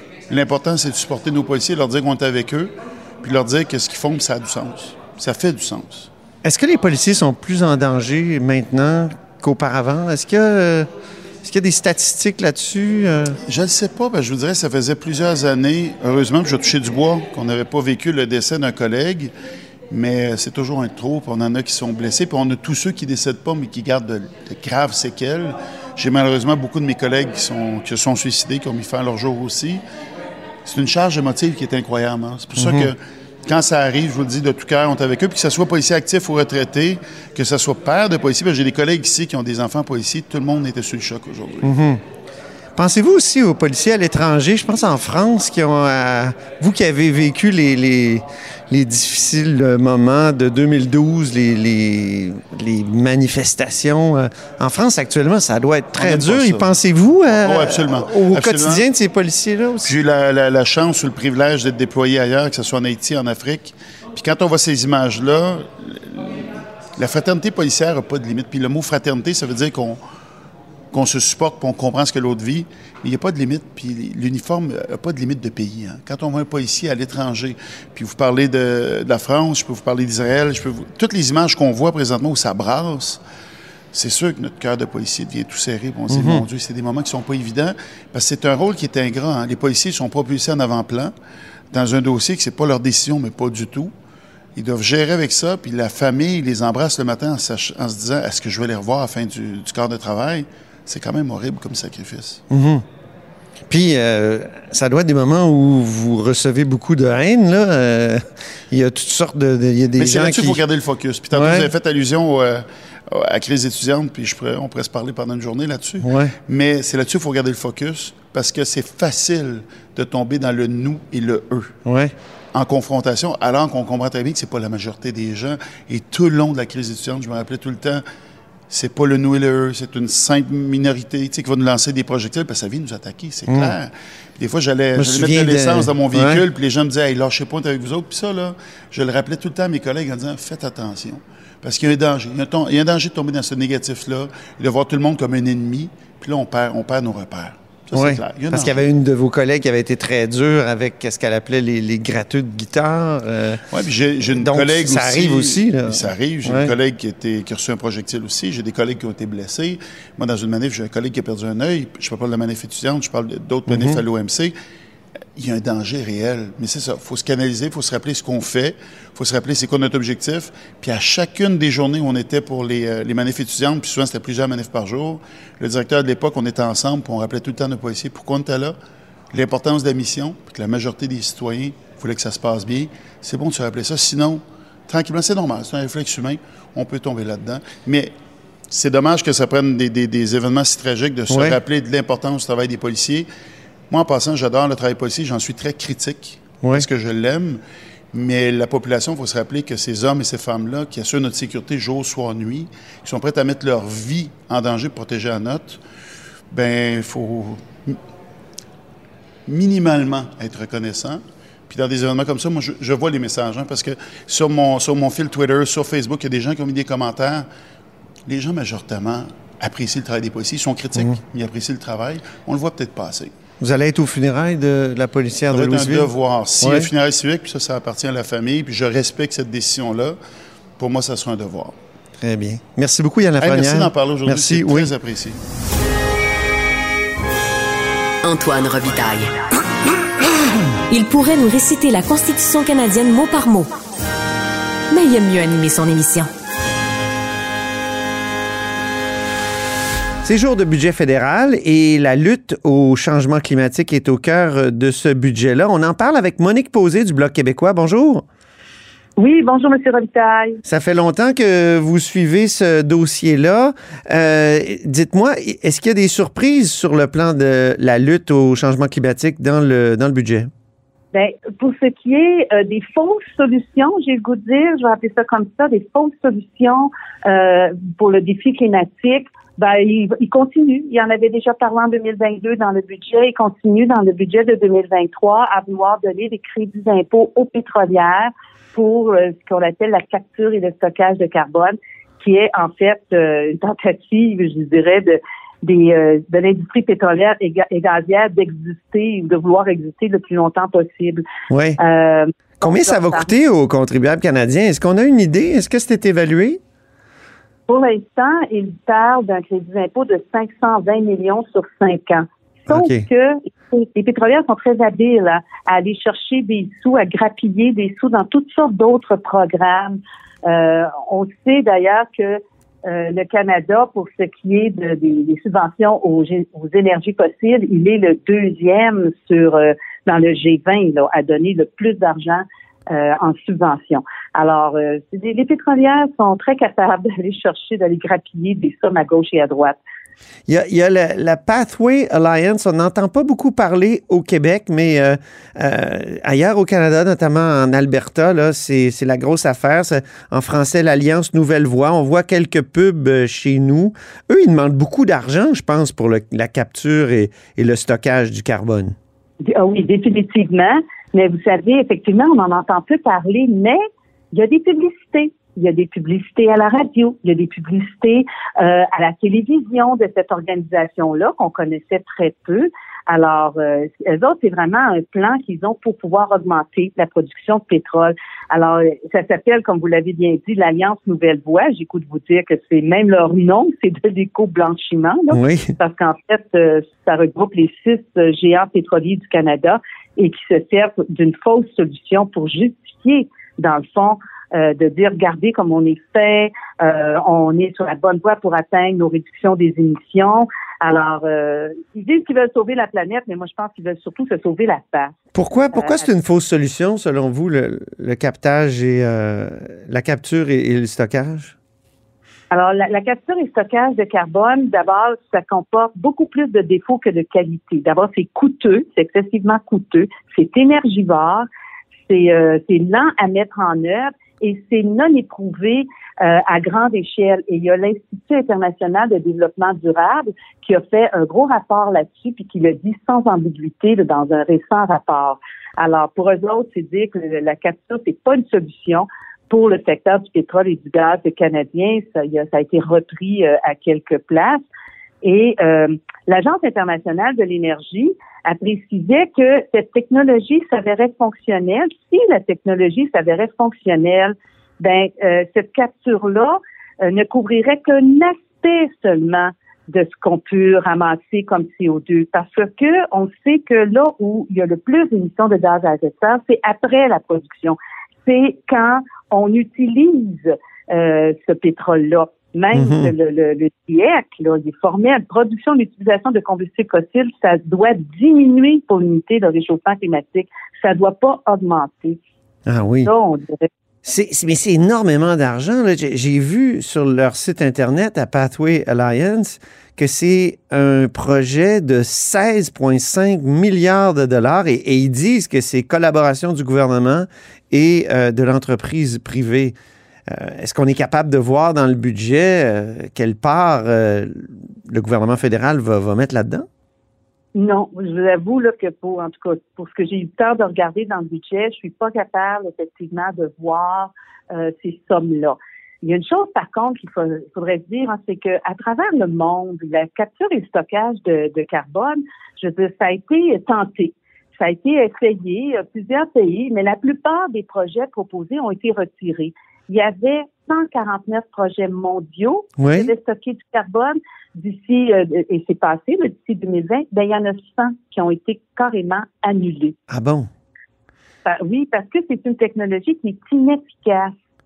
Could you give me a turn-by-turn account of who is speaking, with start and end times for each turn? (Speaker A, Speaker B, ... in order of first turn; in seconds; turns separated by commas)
Speaker A: 0.3-6.1, Speaker B: 6.4-10.9, Speaker B: 11.4-13.4, Speaker A: 13.4-19.3, Speaker A: 19.9-29.8, Speaker A: 30.6-41.7, Speaker B: 32.6-32.9, Speaker B: 41.6-42.0, Speaker B: 42.8-60.0, Speaker A: 56.0-56.8, Speaker A: 57.4-58.8, Speaker A: 59.8-70.0, Speaker A: 70.9-83.2, Speaker A: 83.9-91.1, Speaker B: 86.1-86.4, Speaker A: 91.7-93.9, Speaker A: 94.6-102.4, Speaker B: 102.5-102.8, Speaker B: 103.7-110.6, Speaker A: 110.0-121.8, Speaker B: 111.3-111.7, Speaker B: 116.0-116.3, Speaker B: 121.8-122.1, Speaker A: 122.5-128.0, Speaker A: 128.7-148.9, Speaker B: 133.5-133.8, Speaker B: 134.9-136.4, Speaker B: 147.9-153.6, Speaker A: 153.7-164.5, Speaker B: 154.3-156.8, Speaker B: 163.7-164.0, Speaker A: 165.4-178.8, Speaker A: 179.3-188.1, Speaker A: 188.7-193.3, Speaker B: 191.3-191.6, Speaker A: 193.9-197.6, Speaker A: 198.1-205.8, Speaker A: 206.5-208.0, Speaker A: 209.5-217.5, Speaker A: 218.3-223.3, Speaker B: 223.6-226.9, Speaker A: 225.5-230.2, Speaker A: 230.8-231.7, Speaker B: 232.2-234.9, Speaker A: 233.4-235.4, Speaker C: 238.2-239.3, Speaker C: 240.9-243.7, Speaker C: 244.9-246.3, Speaker B: 250.2-258.2, Speaker D: 259.2-260.6, Speaker B: 260.6-270.5, Speaker D: 271.1-301.2, Speaker B: 301.5-301.8, Speaker D: 301.8-303.3, Speaker B: 302.6-306.6, Speaker D: 307.7-339.8, Speaker B: 312.7-313.0, Speaker B: 340.5-359.0, Speaker D: 359.4-363.8, Speaker D: 364.3-405.1, Speaker B: 385.3-385.7, Speaker B: 405.3-411.5, Speaker D: 405.7-406.1, Speaker D: 412.5-421.5, Speaker D: 422.1-444.6, Speaker D: 445.2-482.2, Speaker B: 472.7-473.1, Speaker B: 482.6-483.1, Speaker D: 483.0-483.7, Speaker B: 484.1-499.8, Speaker B: 500.3-506.7, Speaker D: 507.5-540.0, Speaker B: 532.8-533.1, Speaker B: 540.1-540.5, Speaker D: 541.5-544.3